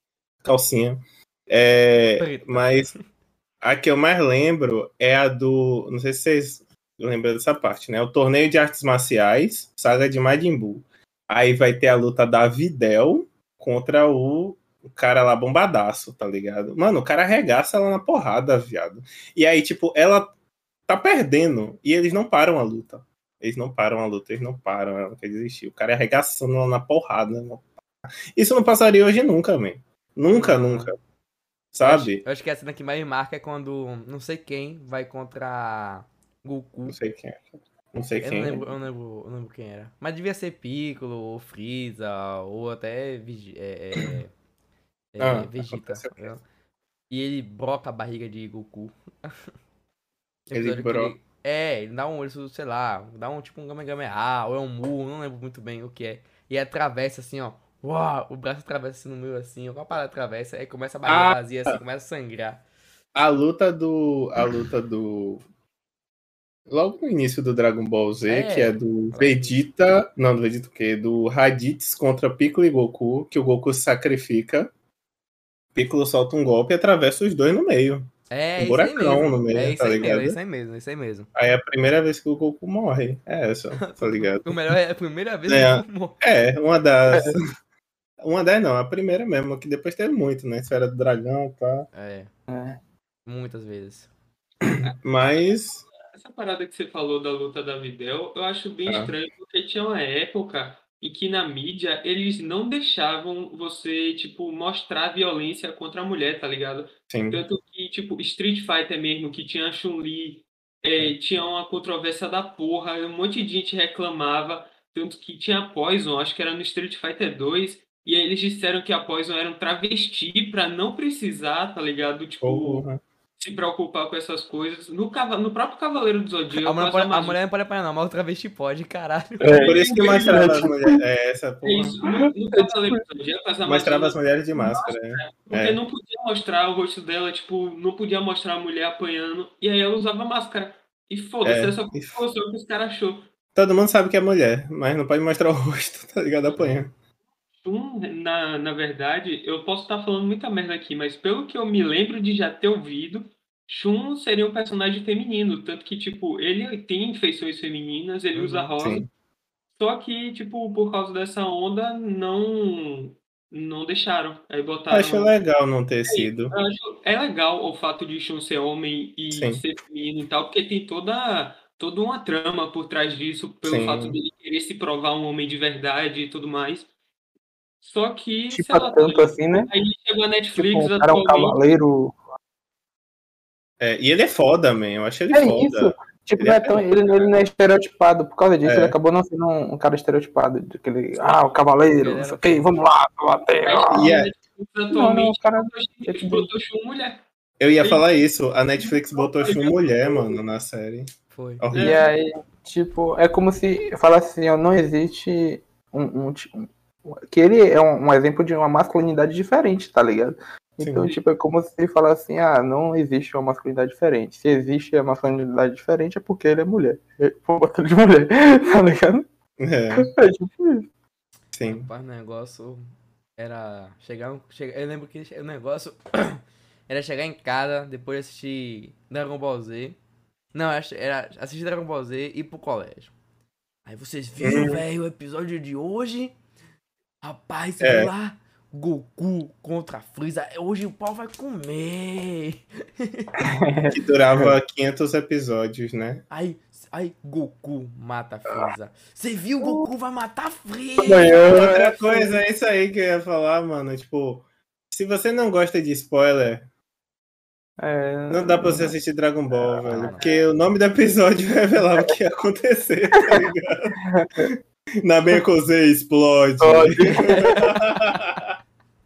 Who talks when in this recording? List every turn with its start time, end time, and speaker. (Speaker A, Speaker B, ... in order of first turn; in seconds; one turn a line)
Speaker A: 0.4-2.9
Speaker B: 2.2-3.0
Speaker A: 3.6-20.3
Speaker A: 20.9-27.6
Speaker A: 28.3-30.9
Speaker B: 30.3-30.9
Speaker A: 31.7-32.2
Speaker B: 31.8-37.0
Speaker A: 36.9-38.6
Speaker B: 38.2-44.3
Speaker B: 45.1-46.4
Speaker A: 45.2-46.4
Speaker B: 47.1-49.4
Speaker B: 50.5-62.6
Speaker A: 50.5-51.1
Speaker A: 61.0-61.8
Speaker A: 63.1-65.4
Speaker A: 66.7-74.7
Speaker B: 68.3-69.6
Speaker A: 75.7-80.4
Speaker B: 78.3-81.3
Speaker A: 81.3-84.7
Speaker B: 83.8-86.2
Speaker A: 85.5-87.4
Speaker A: 88.2-91.9
Speaker B: 91.9-92.3
Speaker C: 92.5-92.8
Speaker B: 93.2-94.1
Speaker A: 94.6-95.8
Speaker D: 96.1-122.8
Speaker A: 98.8-99.1
Speaker A: 107.1-107.4
Speaker A: 122.4-123.0
Speaker D: 123.4-127.4
Speaker B: 126.6-129.6
Speaker C: 129.4-131.0
Speaker D: 129.4-130.7
Speaker A: 129.6-132.0
Speaker D: 131.6-143.3
Speaker C: 132.0-133.0
Speaker A: 133.6-135.8
Speaker A: 141.4-142.2
Speaker A: 143.5-146.9
Speaker D: 147.6-159.1
Speaker B: 158.3-158.7
Speaker A: 158.8-159.1
Speaker D: 159.8-165.3
Speaker A: 164.9-166.5
Speaker D: 166.1-176.9
Speaker A: 169.3-169.6
Speaker A: 173.6-174.2
Speaker D: 177.8-181.6
Speaker C: 178.5-179.7
Speaker C: 180.5-182.1
Speaker A: 183.8-186.8
Speaker C: 185.3-194.1
Speaker A: 188.6-188.9
Speaker B: 191.9-192.6
Speaker D: 193.6-197.2
Speaker A: 193.9-194.3
Speaker C: 194.9-196.5
Speaker A: 197.6-202.0
Speaker D: 197.8-198.1
Speaker D: 199.1-200.2
Speaker B: 201.3-201.6
Speaker D: 201.7-202.1
Speaker C: 201.8-219.2
Speaker A: 210.8-211.2
Speaker A: 219.6-220.1
Speaker C: 219.9-220.9
Speaker A: 221.5-221.9
Speaker B: 221.7-222.8
Speaker B: 223.4-230.0
Speaker B: 230.5-233.1
Speaker B: 233.8-236.3
Speaker A: 234.4-234.8
Speaker B: 237.2-243.3
Speaker A: 237.8-238.1
Speaker C: 243.4-244.0
Speaker A: 243.9-246.2
Speaker B: 246.3-251.7
Speaker C: 249.6-249.9
Speaker C: 251.0-252.3
Speaker A: 251.5-256.7
Speaker C: 257.8-258.9
Speaker A: 258.3-268.5
Speaker B: 259.8-260.3
Speaker C: 263.2-263.4
Speaker C: 264.0-264.5
Speaker C: 266.6-267.5
Speaker B: 267.1-268.0